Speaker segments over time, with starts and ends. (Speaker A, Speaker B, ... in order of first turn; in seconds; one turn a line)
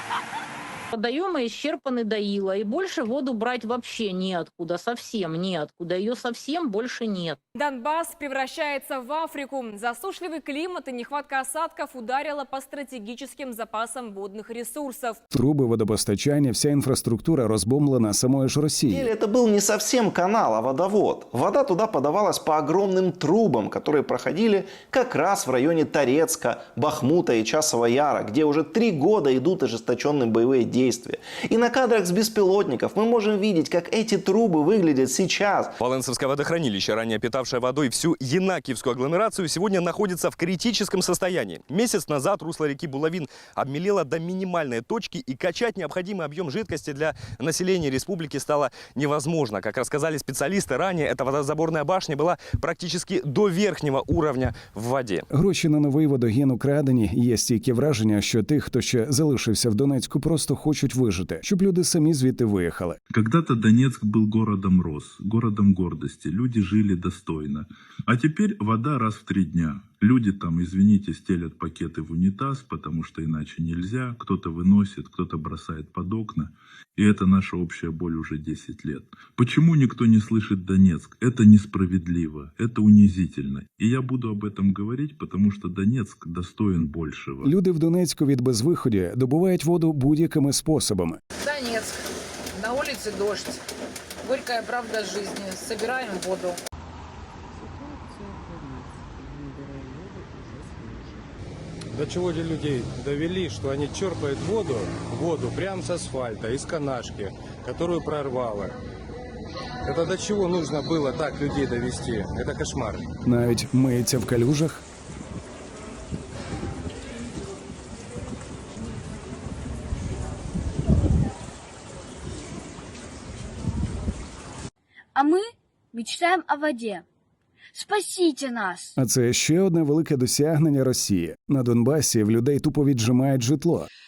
Speaker A: 0.9-7.4
Speaker B: 7.5-15.2
Speaker C: 15.3-19.1
Speaker D: 18.9-35.8
Speaker E: 35.8-55.2
Speaker C: 55.3-63.0
Speaker F: 63.1-87.5
Speaker C: 87.4-91.2
Speaker G: 91.4-92.0
Speaker G: 92.5-93.6
Speaker G: 94.2-96.6
Speaker H: 101.9-108.7
Speaker H: 109.8-113.0
Speaker C: 113.2-114.8
Speaker I: 125.2-127.0
Speaker I: 127.7-128.9
Speaker C: 129.0-133.9